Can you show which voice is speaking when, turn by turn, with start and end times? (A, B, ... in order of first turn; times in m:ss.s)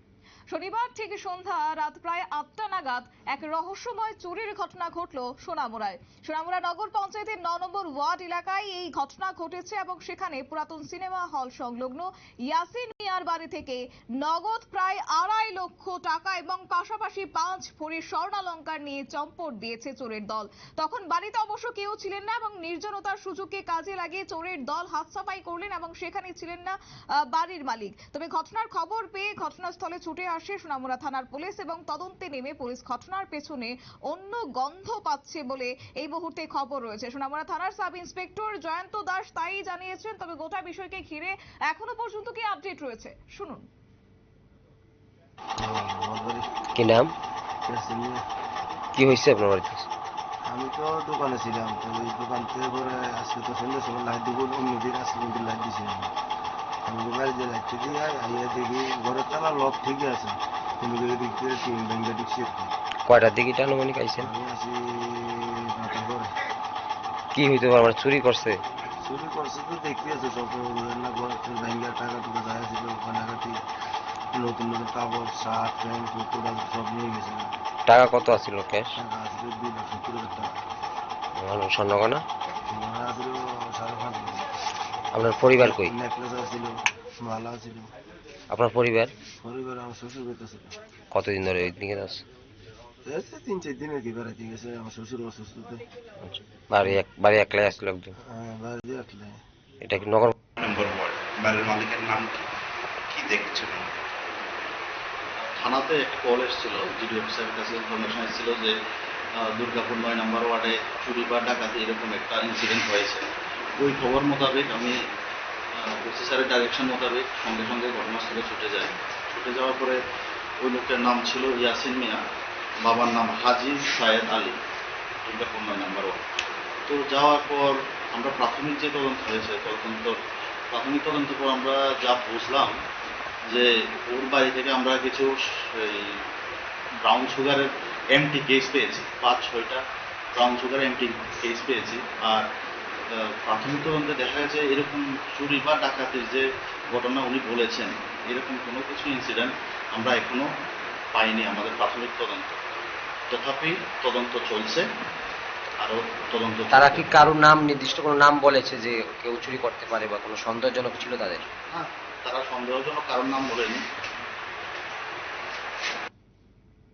0:00.5-0:43.7 A
0:45.6-0:46.5 B
0:46.8-0:47.1 C
0:47.7-0:48.2 B
0:49.0-0:49.9 C
0:50.5-0:56.1 B
0:56.9-1:02.7 B
1:03.1-1:04.3 C
1:04.2-1:06.3 B
1:07.4-1:08.6 C
1:09.0-1:13.6 B
1:14.3-1:17.5 B
1:17.9-1:18.9 C
1:19.0-1:20.5 B
1:21.4-1:22.2 C
1:22.7-1:24.5 B
1:25.1-1:25.9 C
1:25.6-1:27.9 B
1:28.5-1:29.1 C
1:29.4-1:30.8 B
1:31.1-1:32.2 C
1:33.0-1:35.8 B
1:36.2-1:38.1 C
1:38.2-1:39.4 B
1:39.8-1:40.3 C
1:40.6-1:42.5 D
1:43.1-1:44.0 D
1:45.4-1:48.7 E
1:49.4-1:55.0 E
1:55.8-2:00.0 E
2:00.6-2:02.2 E
2:02.8-2:04.6 E
2:05.2-2:06.2 E
2:06.9-2:10.2 E
2:10.7-2:12.8 E
2:13.5-2:16.2 E
2:17.0-2:19.8 E
2:20.3-2:22.5 E
2:23.1-2:30.5 E
2:31.1-2:32.6 E
2:33.3-2:34.9 E
2:35.8-2:37.2 E
2:36.7-2:41.5 C
2:41.7-2:43.8 E